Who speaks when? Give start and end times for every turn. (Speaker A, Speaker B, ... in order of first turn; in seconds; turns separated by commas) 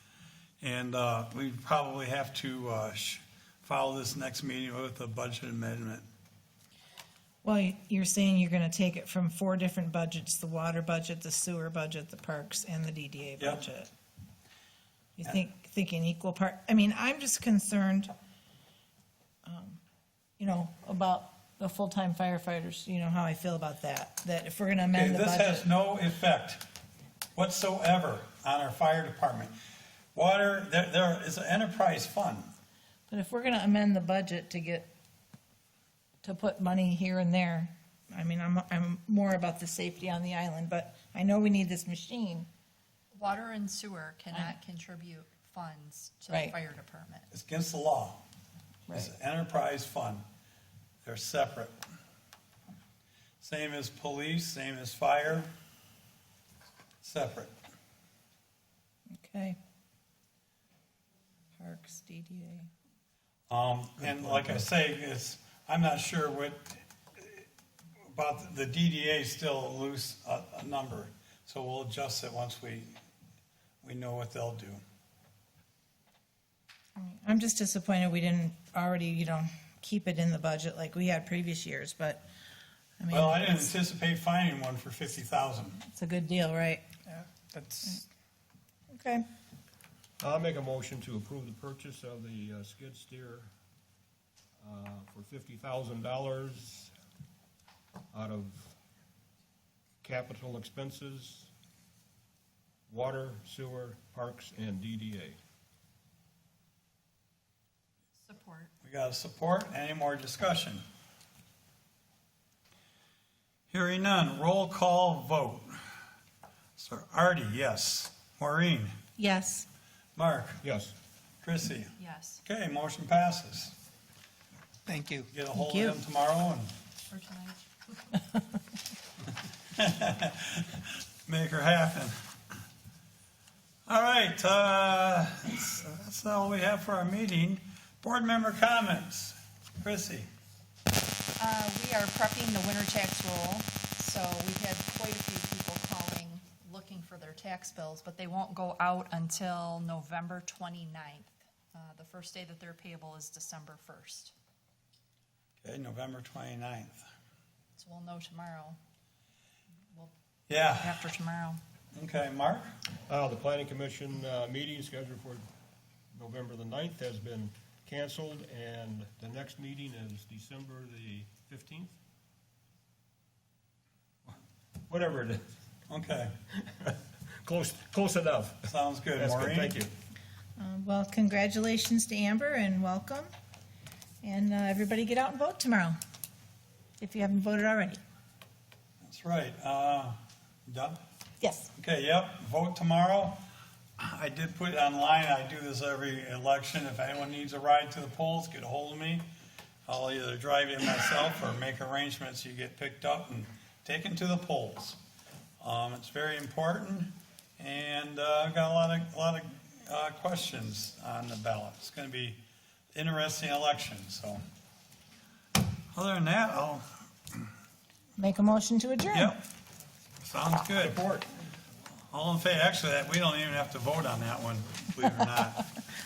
Speaker A: 0.6-6.0, Speaker B: 7.4-13.9, Speaker A: 13.4-13.7, Speaker B: 15.2-18.1, Speaker B: 19.4-19.8, Speaker B: 20.4-25.6, Speaker A: 24.9-26.6, Speaker A: 27.3-29.5, Speaker A: 30.1-32.5, Speaker B: 33.1-34.9, Speaker B: 36.2-42.5, Speaker C: 43.1-47.3, Speaker A: 47.3-48.2, Speaker A: 48.9-50.2, Speaker A: 51.0-51.7, Speaker A: 53.4-55.5, Speaker A: 57.0-57.5, Speaker B: 59.2-59.6, Speaker B: 61.5-62.7, Speaker A: 63.5-67.5, Speaker D: 64.2-64.6, Speaker A: 68.0-73.0, Speaker A: 73.8-74.8, Speaker B: 77.0-82.2, Speaker B: 83.0-83.7, Speaker A: 83.1-85.8, Speaker B: 85.8-86.8, Speaker A: 87.1-88.0, Speaker B: 88.9-89.2, Speaker D: 90.2-93.5, Speaker D: 94.6-96.9, Speaker D: 98.1-98.8, Speaker D: 100.0-101.5, Speaker D: 102.9-105.4, Speaker C: 108.2-108.7, Speaker A: 108.8-110.8, Speaker A: 113.7-115.7, Speaker A: 116.8-118.9, Speaker B: 119.2-119.7, Speaker A: 120.2-120.6, Speaker D: 120.6-120.9, Speaker A: 121.4-123.7, Speaker C: 122.0-122.4, Speaker A: 125.3-126.7, Speaker B: 125.5-126.0, Speaker C: 127.1-128.1, Speaker A: 129.7-132.2, Speaker A: 133.9-140.3, Speaker C: 141.4-154.3, Speaker A: 155.6-157.0, Speaker C: 157.8-158.8, Speaker A: 160.5-161.0, Speaker C: 160.7-161.6, Speaker A: 161.9-162.7, Speaker D: 163.1-165.4, Speaker D: 166.1-171.9, Speaker D: 174.9-175.4, Speaker A: 175.9-176.3, Speaker D: 176.7-179.9, Speaker A: 178.7-179.8, Speaker B: 180.6-183.3, Speaker B: 184.2-185.9, Speaker B: 187.0-188.0, Speaker A: 189.0-190.2, Speaker A: 190.7-191.0, Speaker B: 191.4-191.7, Speaker A: 191.8-193.4, Speaker A: 194.0-199.2, Speaker A: 199.9-205.0, Speaker A: 205.6-212.4, Speaker A: 212.9-214.4, Speaker A: 215.9-216.8, Speaker B: 218.2-219.3, Speaker A: 219.1-219.4, Speaker A: 220.2-221.0, Speaker D: 220.8-221.2, Speaker A: 222.1-225.7